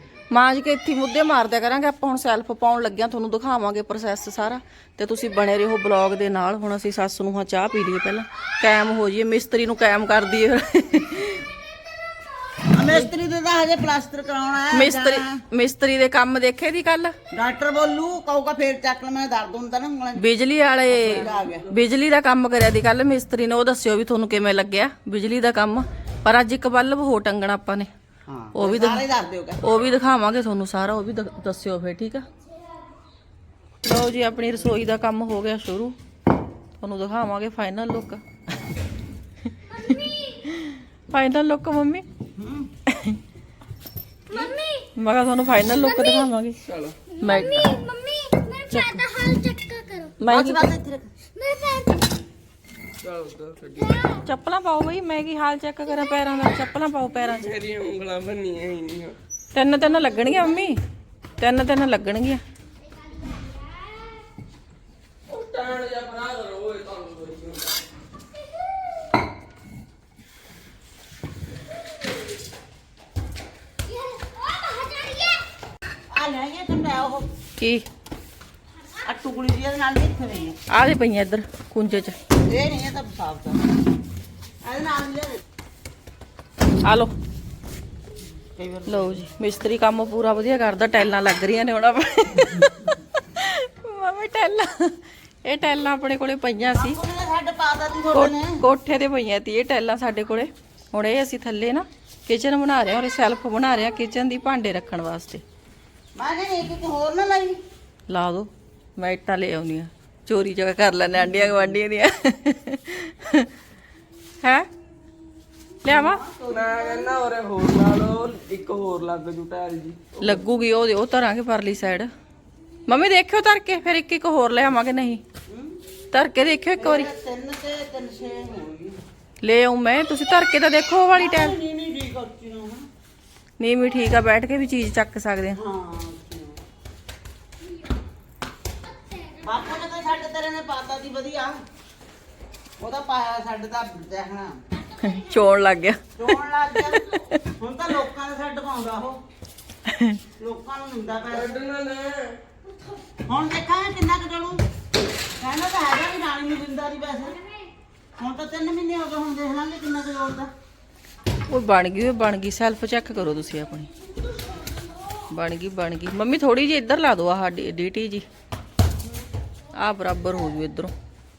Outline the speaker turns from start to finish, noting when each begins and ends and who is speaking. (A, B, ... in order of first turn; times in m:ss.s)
0:00.3-0:11.5 A
0:12.7-0:15.4 B
0:14.7-0:17.1 A
0:17.3-0:20.2 B
0:20.2-0:27.9 A
0:20.9-0:21.7 B
0:21.2-0:21.7 C
0:28.2-0:29.6 B
0:28.5-0:29.1 A
0:29.6-0:32.2 A
0:33.8-0:36.0 A
0:36.8-0:38.2 A
0:39.7-0:40.4 D
0:39.7-0:42.0 A
0:42.4-0:42.7 B
0:42.9-0:43.2 A
0:44.3-0:44.9 D
0:45.0-0:46.6 A
0:45.7-0:46.3 D
0:46.7-0:47.0 C
0:47.1-0:50.1 D
0:47.2-0:47.7 A
0:48.7-0:49.0 A
0:50.2-0:50.7 A
0:50.3-0:51.1 B
0:51.4-0:52.1 D
0:53.0-0:54.0 C
0:53.8-0:54.2 D
0:54.2-0:57.5 A
0:57.3-0:59.2 C
0:59.5-1:00.8 A
1:00.0-1:00.4 D
1:01.4-1:02.4 A
1:02.8-1:04.2 D
1:05.3-1:07.8 C
1:13.9-1:15.4 D
1:16.1-1:17.3 B
1:17.6-1:17.9 A
1:19.0-1:20.6 B
1:20.7-1:22.2 A
1:22.4-1:23.6 B
1:24.6-1:25.4 B
1:26.8-1:27.1 A
1:28.6-1:29.2 B
1:28.9-1:37.0 A
1:36.7-1:38.6 B
1:38.1-1:45.4 A
1:46.2-1:47.6 B
1:48.1-1:53.5 A
1:54.4-1:54.7 A
1:55.8-1:56.2 A
1:55.9-1:57.2 B
1:56.5-2:00.4 C
2:00.2-2:02.1 A
2:02.9-2:05.2 A
2:05.5-2:05.8 B
2:06.1-2:07.1 A
2:06.8-2:09.0 B
2:09.4-2:11.6 A
2:11.2-2:12.9 B
2:13.6-2:15.6 A
2:15.6-2:16.6 B
2:18.8-2:19.5 D
2:19.4-2:21.6 B
2:22.8-2:24.6 B
2:24.7-2:25.5 D
2:25.0-2:27.4 A
2:26.2-2:29.2 B
2:29.9-2:30.2 A
2:30.4-2:31.6 B
2:31.3-2:32.4 C
2:33.3-2:34.7 B
2:35.4-2:37.4 B
2:38.2-2:40.5 B
2:41.5-2:43.9 A
2:45.3-2:48.2 A
2:49.8-2:50.9 A